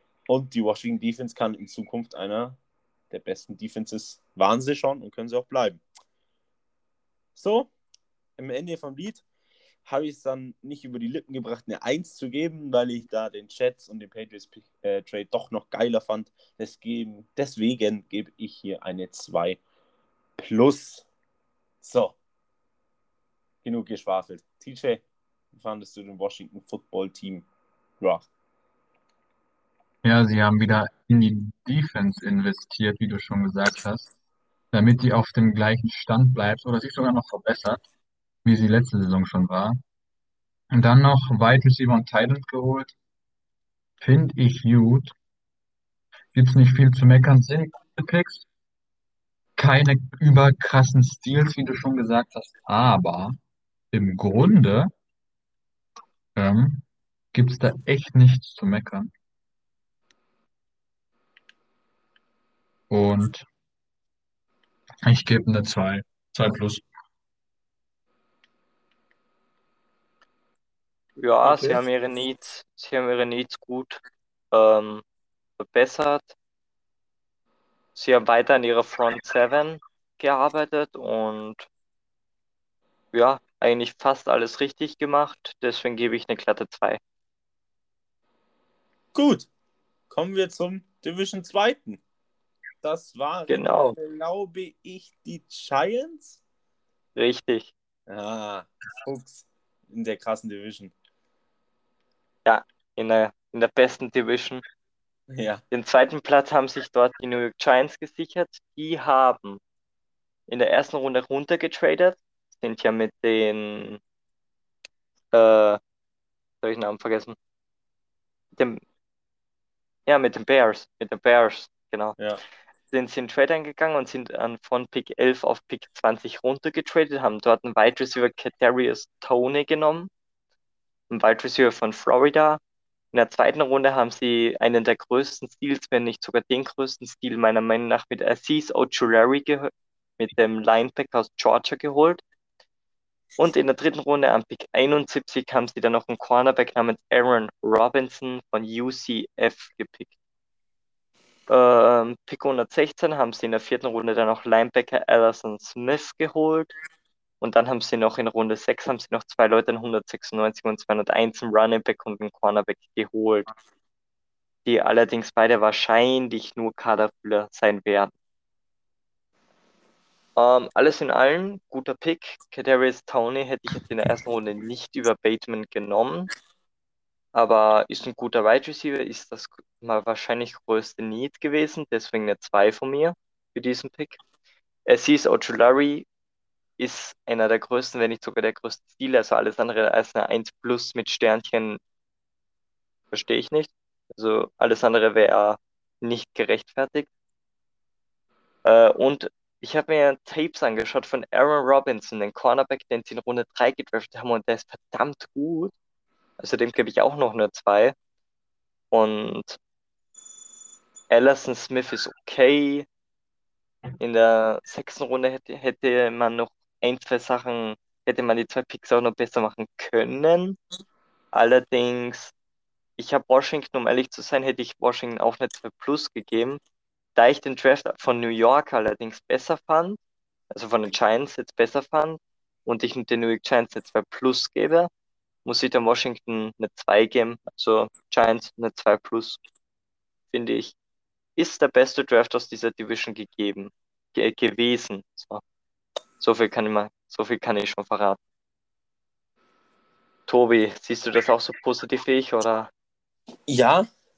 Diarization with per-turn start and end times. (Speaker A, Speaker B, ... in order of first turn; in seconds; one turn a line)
Speaker A: 0.3-2.6
Speaker A: 3.1-5.8
Speaker A: 7.3-7.7
Speaker A: 8.4-9.2
Speaker A: 9.8-19.6
Speaker A: 20.4-21.1
Speaker A: 21.8-22.2
Speaker A: 23.6-25.0
Speaker A: 25.5-27.5
Speaker A: 28.0-28.3
Speaker B: 30.0-34.1
Speaker B: 34.7-37.8
Speaker B: 38.4-39.8
Speaker B: 40.7-42.9
Speaker B: 44.0-45.1
Speaker B: 46.3-48.4
Speaker B: 49.5-53.4
Speaker B: 53.9-54.9
Speaker B: 56.4-59.1
Speaker B: 62.9-63.5
Speaker B: 65.0-66.8
Speaker C: 71.2-75.0
Speaker A: 71.4-71.8
Speaker C: 75.6-76.3
Speaker C: 77.9-81.7
Speaker C: 83.1-87.0
Speaker A: 89.1-89.5
Speaker A: 90.1-92.0
Speaker A: 92.8-96.4
Speaker C: 93.5-94.0
Speaker C: 97.1-97.7
Speaker A: 98.1-100.9
Speaker C: 102.4-104.6
Speaker A: 105.3-105.6
Speaker C: 105.7-109.6
Speaker C: 110.5-114.0
Speaker C: 115.3-115.8
Speaker C: 116.6-117.3
Speaker C: 118.5-118.8
Speaker C: 120.1-122.2
Speaker C: 122.9-130.1
Speaker C: 131.1-132.6
Speaker C: 133.1-142.2
Speaker C: 143.4-150.1
Speaker C: 151.5-156.7
Speaker C: 157.4-163.4
Speaker C: 164.6-168.1
Speaker C: 170.3-176.3
Speaker C: 177.3-184.2
Speaker C: 184.9-186.1
Speaker C: 186.8-191.8
Speaker C: 193.1-197.1
Speaker C: 198.6-205.7
Speaker C: 206.4-207.9
Speaker C: 208.9-209.6
Speaker C: 211.1-212.8
Speaker C: 214.0-220.6
Speaker C: 221.3-222.3
Speaker C: 223.0-226.6
Speaker C: 227.2-230.0
Speaker C: 230.5-234.9
Speaker C: 235.4-239.4
Speaker C: 240.3-240.7
Speaker C: 241.4-245.4
Speaker C: 246.2-248.2
Speaker C: 250.3-252.7
Speaker A: 253.5-253.9